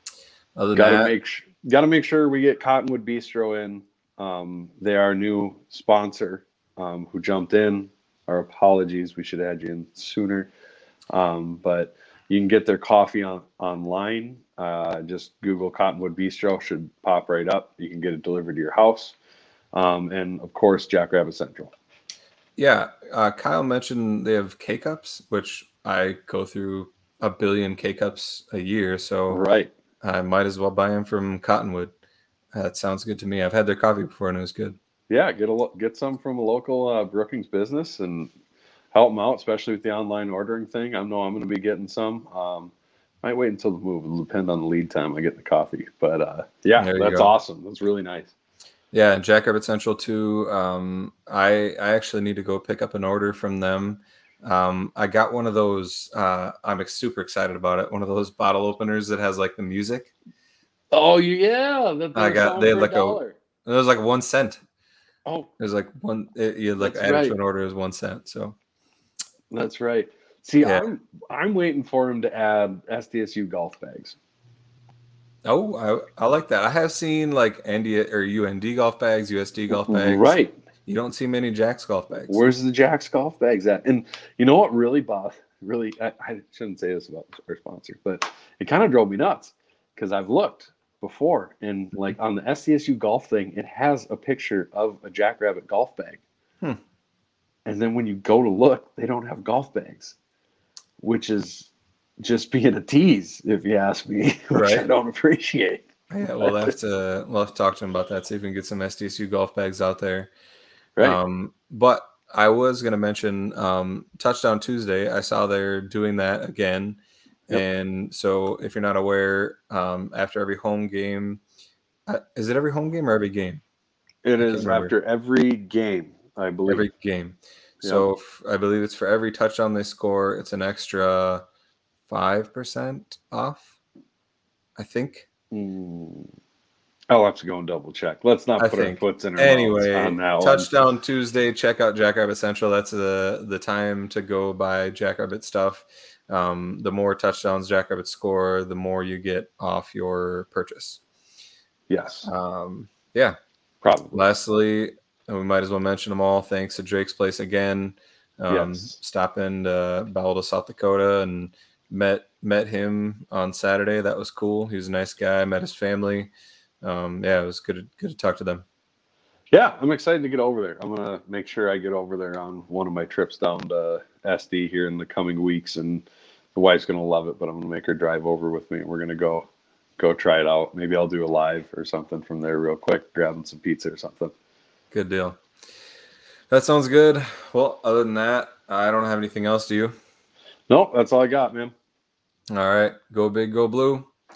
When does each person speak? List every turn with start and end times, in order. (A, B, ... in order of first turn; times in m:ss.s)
0:00.6-0:01.1 A
0:00.8-0:10.5 B
0:11.1-0:19.2 B
0:19.7-0:21.7 B
0:22.6-0:29.4 A
0:29.3-0:29.7 B
0:30.0-0:31.9 A
0:32.5-0:34.8 A
0:35.1-0:38.3 B
0:38.9-0:48.3 B
0:46.8-0:47.3 A
0:48.9-1:00.1 A
1:00.9-1:03.4 B
1:02.2-1:04.6 A
1:05.6-1:08.6 A
1:06.8-1:07.4 B
1:09.5-1:14.2 B
1:15.4-1:20.4 A
1:19.7-1:20.5 B
1:20.9-1:22.4 A
1:22.3-1:36.2 B
1:37.7-1:40.2 B
1:41.0-1:45.9 B
1:44.5-1:44.9 A
1:46.1-1:50.3 A
1:46.4-1:46.7 B
1:51.0-2:01.4 A
2:02.1-2:03.6 A
2:04.2-2:06.9 B
2:04.4-2:04.9 A
2:06.7-2:11.4 A
2:12.1-2:13.8 A
2:14.8-2:15.3 A
2:15.5-2:16.3 B
2:17.1-2:20.7 B
2:18.6-2:31.0 A
2:31.9-2:32.3 B
2:32.3-2:33.4 A
2:33.8-2:34.2 B
2:34.1-2:48.6 A
2:38.5-2:39.0 B
2:49.5-3:04.3 B
3:04.9-3:05.4 A
3:06.5-3:10.0 A
3:10.7-3:11.7 B
3:12.5-3:14.1 A